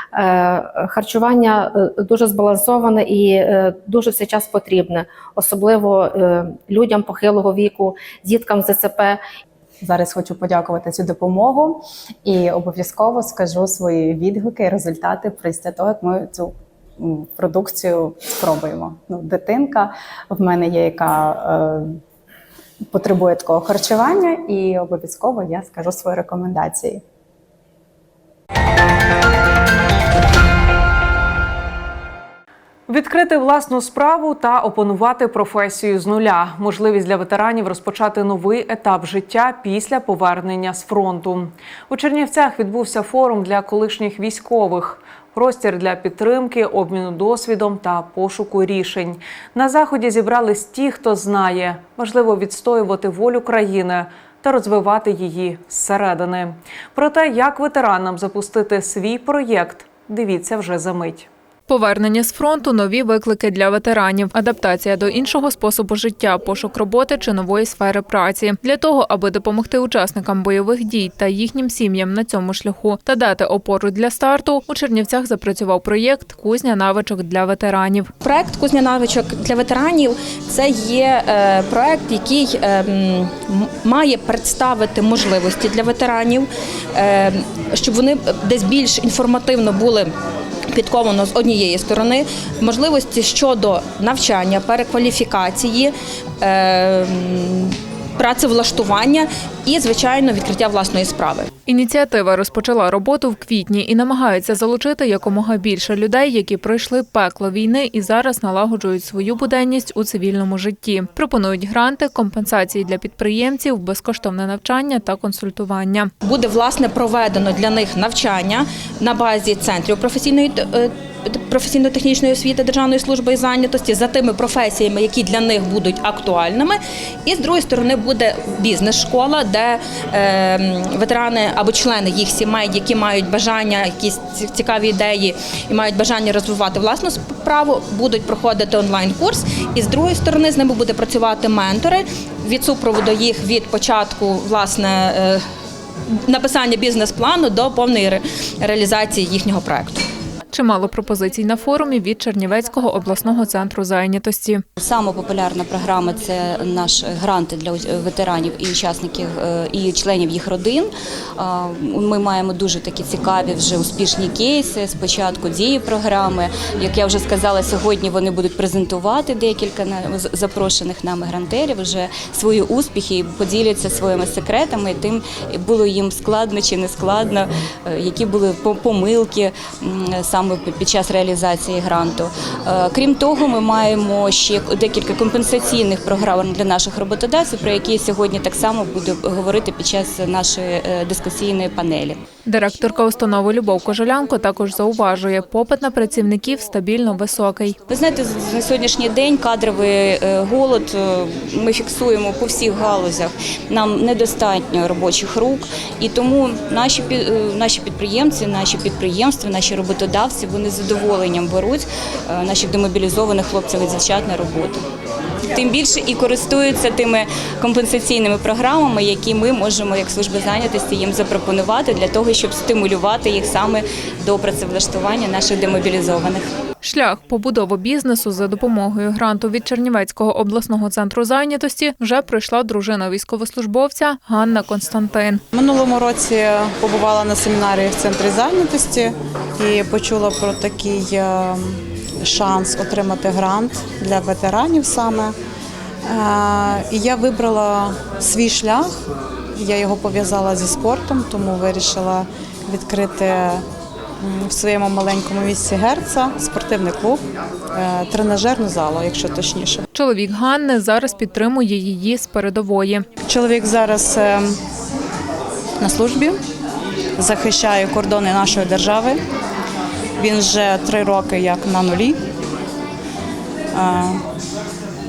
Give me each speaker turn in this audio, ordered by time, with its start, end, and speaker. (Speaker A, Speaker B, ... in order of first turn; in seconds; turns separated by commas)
Speaker A: 0.1-9.2, Speaker B: 9.8-21.8, Speaker B: 22.9-27.0, Speaker C: 32.9-61.3, Speaker D: 61.7-78.1, Speaker E: 78.2-86.5, Speaker E: 87.0-90.1, Speaker E: 90.7-95.9, Speaker E: 96.4-101.5, Speaker D: 101.7-116.1, Speaker E: 116.2-145.4, Speaker E: 146.3-150.0, Speaker D: 150.5-154.6, Speaker F: 154.8-192.2, Speaker D: 192.5-197.8, Speaker F: 197.9-214.8, Speaker F: 215.5-226.4, Speaker D: 226.8-235.4, Speaker G: 235.5-245.3, Speaker G: 246.1-248.9, Speaker G: 249.6-253.6, Speaker G: 254.2-257.2, Speaker G: 257.7-259.8, Speaker D: 259.9-263.1, Speaker G: 263.3-264.6, Speaker G: 265.8-266.4, Speaker G: 267.2-269.2, Speaker G: 270.2-272.2, Speaker G: 273.7-274.2